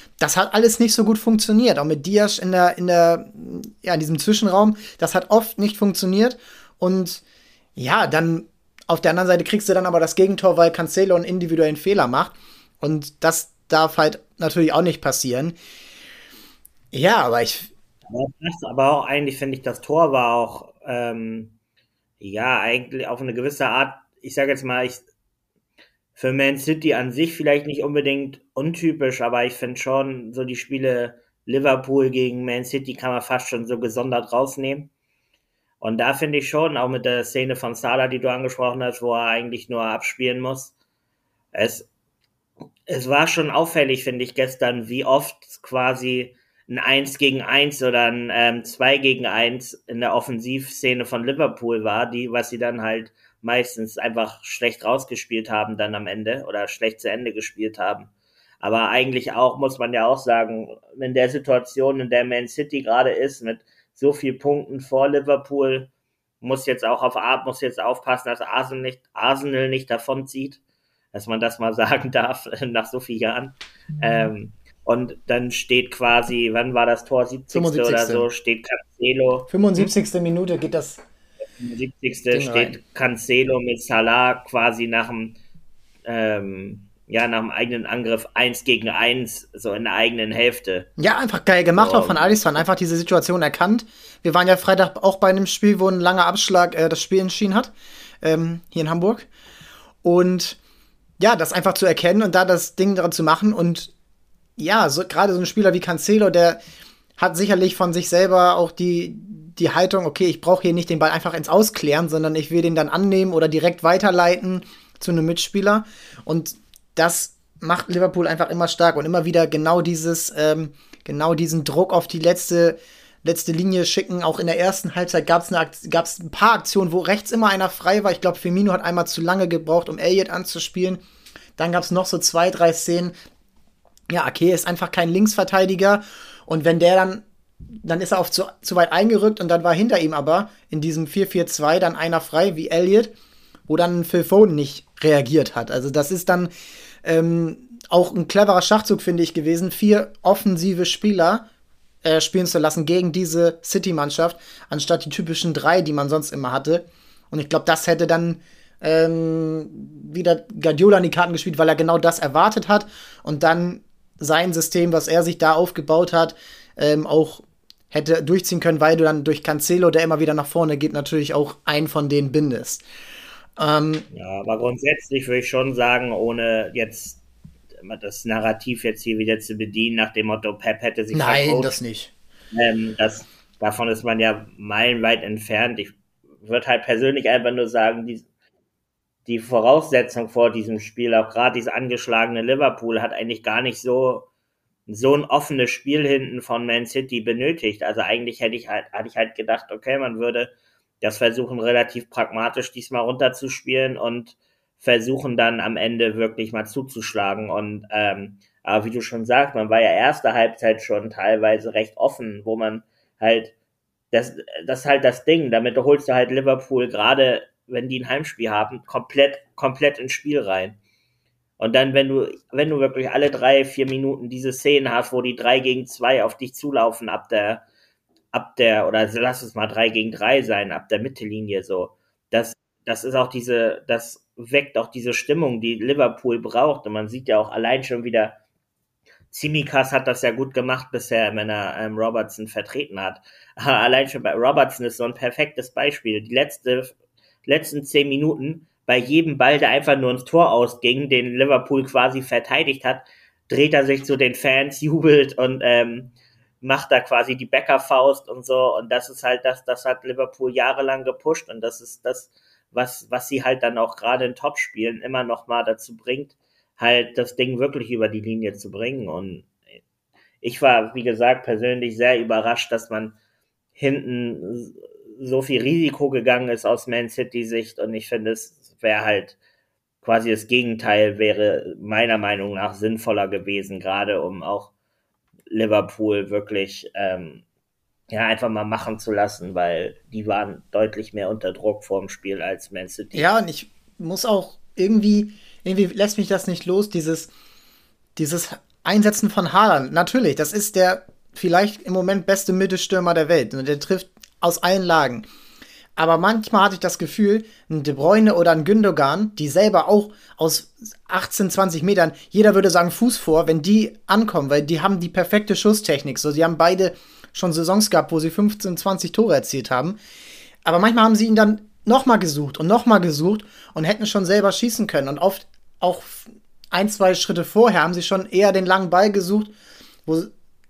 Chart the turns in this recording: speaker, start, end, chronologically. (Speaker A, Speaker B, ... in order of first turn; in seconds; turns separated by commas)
Speaker A: 0.2-7.2, Speaker A: 7.8-15.6, Speaker A: 16.9-17.7, Speaker B: 18.1-21.6, Speaker B: 22.2-25.0, Speaker B: 26.1-34.9, Speaker B: 35.8-40.7, Speaker B: 41.5-41.9, Speaker B: 42.9-65.9, Speaker B: 66.4-70.6, Speaker B: 71.1-79.9, Speaker A: 77.5-78.3, Speaker A: 79.5-81.0, Speaker B: 81.6-85.3, Speaker A: 82.3-82.8, Speaker B: 86.0-90.9, Speaker A: 91.0-99.3, Speaker B: 91.8-92.6, Speaker A: 100.0-100.6, Speaker A: 101.2-103.9, Speaker A: 104.6-106.6, Speaker A: 107.2-131.0, Speaker A: 131.6-133.1, Speaker A: 134.1-137.2, Speaker A: 137.8-143.1, Speaker A: 143.7-146.5, Speaker A: 147.0-151.4, Speaker A: 152.0-172.8, Speaker A: 173.6-174.1, Speaker B: 174.1-177.2, Speaker B: 177.8-181.7, Speaker A: 181.1-182.1, Speaker B: 182.5-188.2, Speaker B: 189.2-194.3, Speaker B: 194.9-213.5, Speaker B: 214.1-220.8, Speaker B: 221.6-227.6, Speaker B: 228.3-238.4, Speaker B: 239.3-246.9, Speaker B: 247.4-269.5, Speaker B: 270.4-273.2, Speaker B: 273.8-279.4, Speaker B: 280.0-284.7, Speaker B: 285.5-287.4, Speaker B: 288.1-293.2, Speaker A: 293.1-297.3, Speaker A: 298.1-305.2, Speaker A: 305.9-320.0, Speaker A: 320.6-329.5